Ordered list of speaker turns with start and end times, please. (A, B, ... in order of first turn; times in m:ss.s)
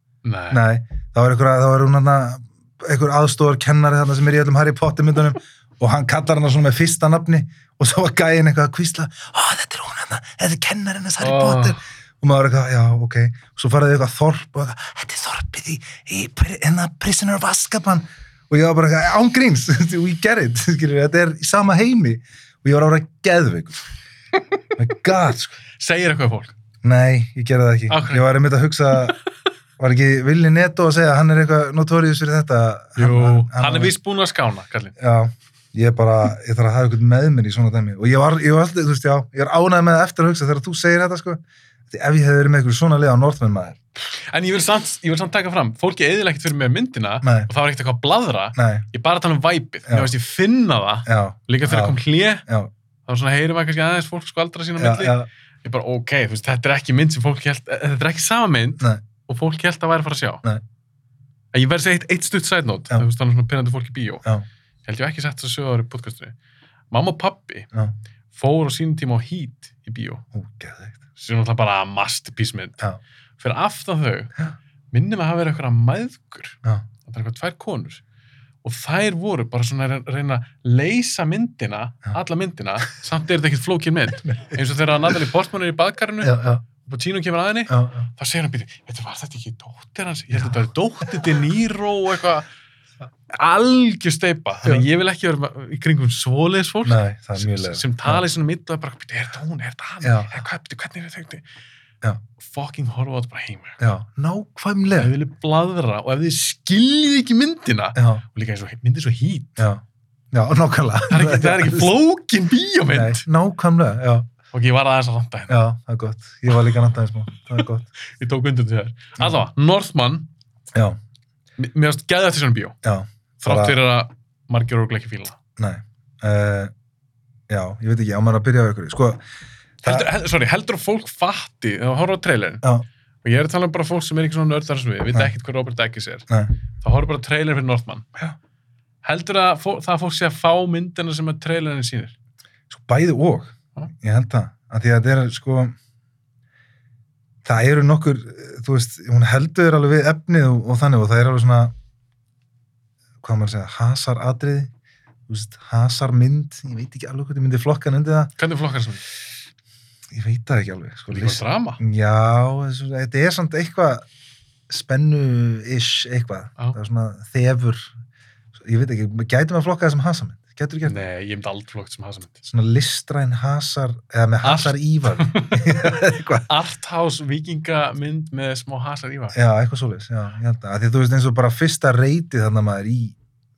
0:00.2-0:00.6 A
0:00.5-0:23.8 B
0:11.2-0:11.8 A
0:24.8-0:25.6 B
0:25.8-0:26.5 A
0:26.8-0:29.2 B
0:27.9-0:28.3 A
0:29.8-0:33.9 B
0:33.0-0:35.0 A
0:35.0-0:43.8 B
0:44.2-0:52.4 A
0:47.2-0:47.5 B
0:48.6-0:48.9 B
0:51.1-0:52.7 B
0:53.1-1:00.4 A
0:54.8-0:55.3 B
0:58.8-0:59.0 B
1:01.5-1:04.2 A
1:04.8-1:06.4 A
1:06.9-1:07.7 A
1:08.3-1:10.2 A
1:10.3-1:11.0 B
1:11.2-1:12.8 A
1:13.4-1:14.3 A
1:14.9-1:18.0 A
1:18.6-1:32.5 A
1:24.3-1:24.6 B
1:26.2-1:26.7 B
1:27.7-1:28.1 B
1:33.3-1:41.4 A
1:36.8-1:38.2 B
1:40.0-1:40.3 B
1:42.4-1:43.8 A
1:43.8-1:45.1 B
1:45.0-1:49.6 A
1:48.0-1:48.2 B
1:49.6-1:51.9 B
1:51.1-1:53.2 A
1:52.9-1:54.3 B
1:54.5-1:55.6 A
1:55.5-1:57.9 B
1:58.2-2:00.3 A
2:01.6-2:02.8 A
2:02.8-2:03.8 B
2:03.4-2:05.4 A
2:05.6-2:06.7 B
2:07.5-2:09.2 B
2:09.8-2:10.1 B
2:09.8-2:12.6 A
2:13.2-2:16.3 A
2:16.8-2:18.1 A
2:19.0-2:22.1 A
2:22.7-2:25.8 B
2:27.4-2:31.7 B
2:33.2-2:34.7 B
2:35.3-2:38.3 B
2:38.4-2:39.0 A
2:40.1-2:44.0 B
2:41.1-2:41.8 A
2:44.7-2:47.9 B
2:48.6-2:51.0 B
2:50.9-2:52.4 A
2:52.4-2:56.5 B
2:54.4-2:59.4 A
2:59.3-3:03.2 B